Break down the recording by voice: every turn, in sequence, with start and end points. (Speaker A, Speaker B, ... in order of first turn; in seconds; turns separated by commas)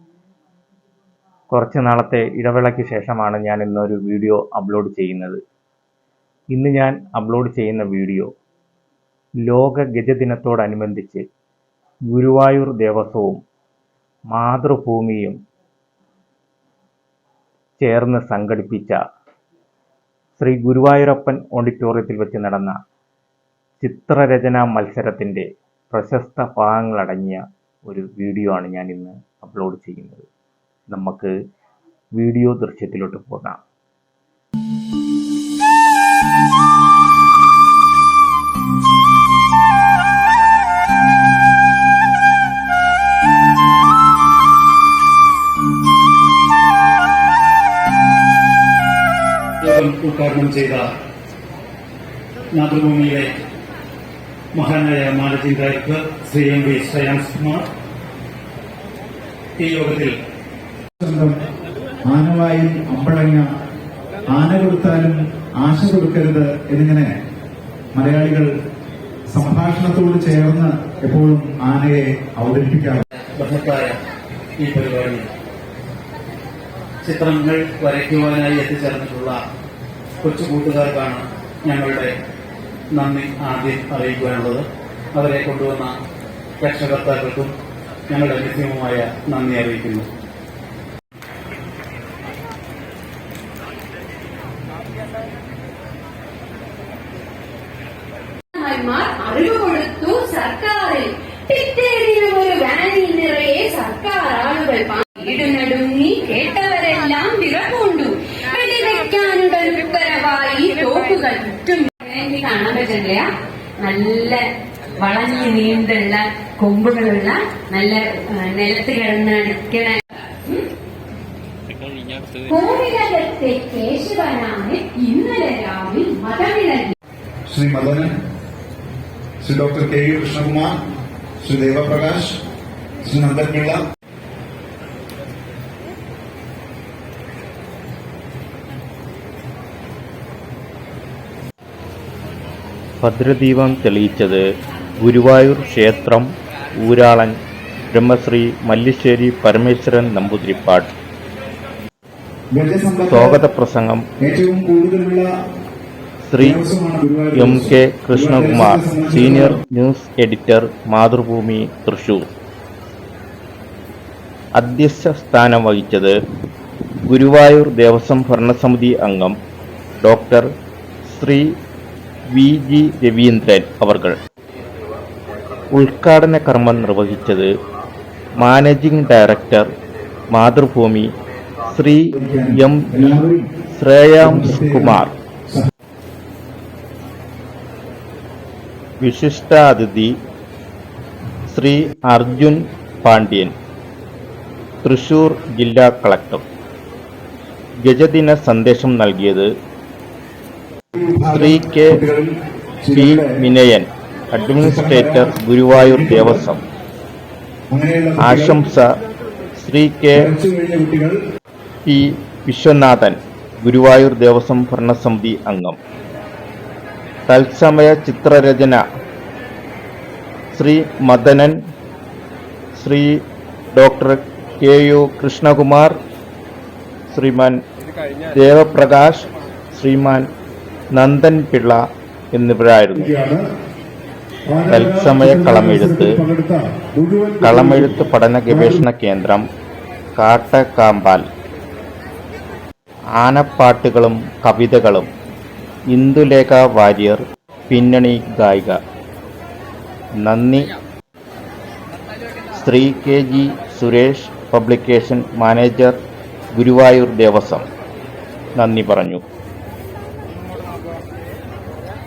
Speaker A: 1.5-5.4, Speaker A: 6.5-8.3, Speaker A: 9.4-11.2, Speaker A: 12.1-13.4, Speaker A: 14.3-15.4, Speaker A: 17.8-19.0, Speaker A: 20.4-22.8, Speaker A: 23.8-30.2, Speaker A: 30.9-31.3, Speaker A: 32.2-33.6, Speaker B: 49.6-50.9, Speaker B: 52.5-53.3, Speaker B: 54.5-57.7, Speaker B: 59.6-60.1, Speaker C: 61.0-61.4, Speaker C: 62.1-63.5, Speaker C: 64.3-67.1, Speaker C: 67.9-68.5, Speaker C: 69.3-73.0, Speaker B: 73.4-74.0, Speaker B: 74.6-75.3, Speaker B: 77.0-79.4, Speaker B: 80.2-82.1, Speaker B: 83.0-86.0, Speaker B: 86.6-87.5, Speaker B: 88.1-90.1, Speaker D: 98.5-113.3, Speaker D: 113.8-114.4, Speaker D: 115.0-120.6, Speaker D: 122.5-127.0, Speaker C: 127.5-128.1, Speaker C: 129.4-130.7, Speaker C: 131.4-132.3, Speaker C: 133.0-133.8, Speaker A: 143.0-144.4, Speaker A: 145.0-146.3, Speaker A: 146.8-147.3, Speaker A: 147.9-150.9, Speaker C: 152.5-153.4, Speaker A: 153.1-154.0, Speaker C: 154.2-155.3, Speaker A: 156.2-156.6, Speaker C: 156.4-159.5, Speaker A: 157.3-162.2, Speaker A: 164.6-166.1, Speaker A: 167.1-169.3, Speaker A: 170.0-170.5, Speaker A: 171.1-171.5, Speaker A: 172.3-174.2, Speaker A: 175.7-177.5, Speaker A: 178.4-179.7, Speaker A: 180.3-181.1, Speaker A: 181.7-185.1, Speaker C: 182.2-183.4, Speaker C: 184.2-185.0, Speaker A: 189.0-190.1, Speaker A: 191.5-193.5, Speaker A: 194.8-196.4, Speaker A: 197.8-199.5, Speaker C: 201.1-202.3, Speaker A: 201.2-202.0, Speaker C: 202.8-203.3, Speaker A: 202.9-206.6, Speaker C: 204.6-206.4, Speaker C: 207.7-208.6, Speaker A: 208.2-208.9, Speaker A: 209.6-210.3, Speaker C: 210.2-211.2, Speaker A: 211.8-215.8, Speaker A: 217.3-218.8, Speaker A: 220.5-221.6, Speaker A: 222.8-223.1, Speaker A: 223.8-225.9, Speaker A: 227.1-227.6, Speaker A: 228.3-230.2, Speaker A: 230.9-231.8, Speaker A: 232.3-233.1, Speaker C: 232.9-233.4, Speaker C: 234.5-237.9, Speaker A: 234.7-236.2, Speaker A: 237.4-239.4, Speaker C: 238.5-238.8, Speaker A: 240.2-241.3, Speaker A: 243.2-245.1, Speaker A: 245.9-248.8, Speaker A: 250.2-250.7, Speaker A: 252.5-256.0, Speaker A: 256.6-257.6, Speaker A: 258.6-259.2